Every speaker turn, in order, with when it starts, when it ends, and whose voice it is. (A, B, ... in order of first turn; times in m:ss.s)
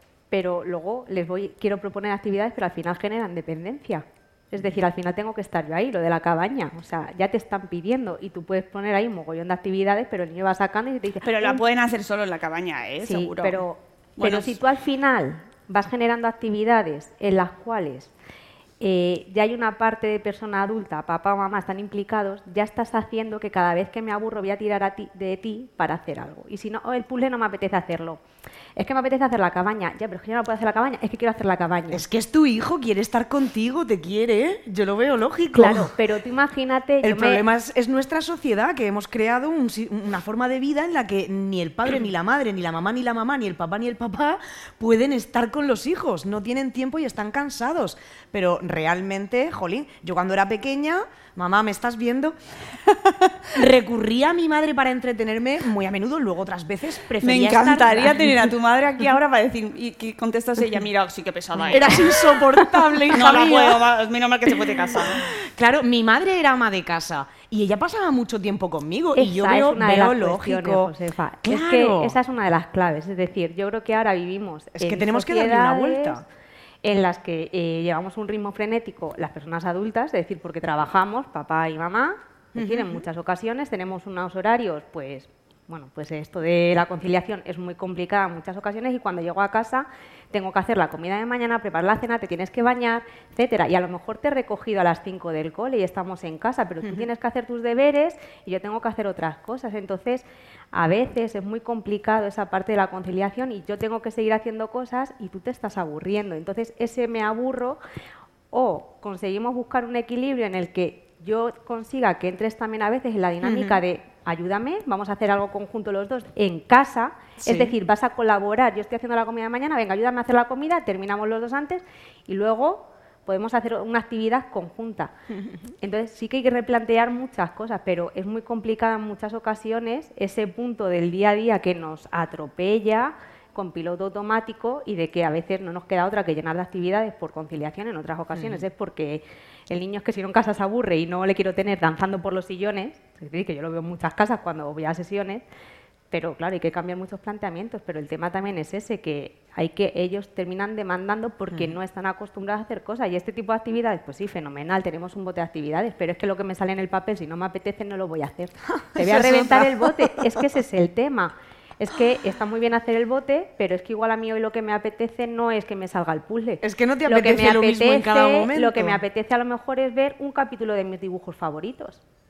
0:00.3-0:11.6 A
0:11.2-0:13.6 B
0:13.0-0:18.1 A
0:14.2-0:14.6 B
0:18.8-0:28.2 A
0:28.8-0:32.0 A
0:31.9-0:36.0 C
0:35.5-0:37.4 A
0:37.0-0:52.4 C
0:53.5-0:58.5 C
0:57.2-1:05.3 B
1:01.6-1:03.9 C
1:04.7-1:12.2 C
1:09.1-1:16.2 A
1:14.8-1:16.2 C
1:16.8-1:47.8 A
1:22.5-1:23.0 C
1:48.5-2:05.2 A
1:53.4-1:53.8 C
1:57.4-1:57.7 C
2:05.8-2:25.4 A
2:18.3-2:18.6 C
2:26.1-2:52.0 A
2:38.8-2:40.4 C
2:46.6-2:49.0 C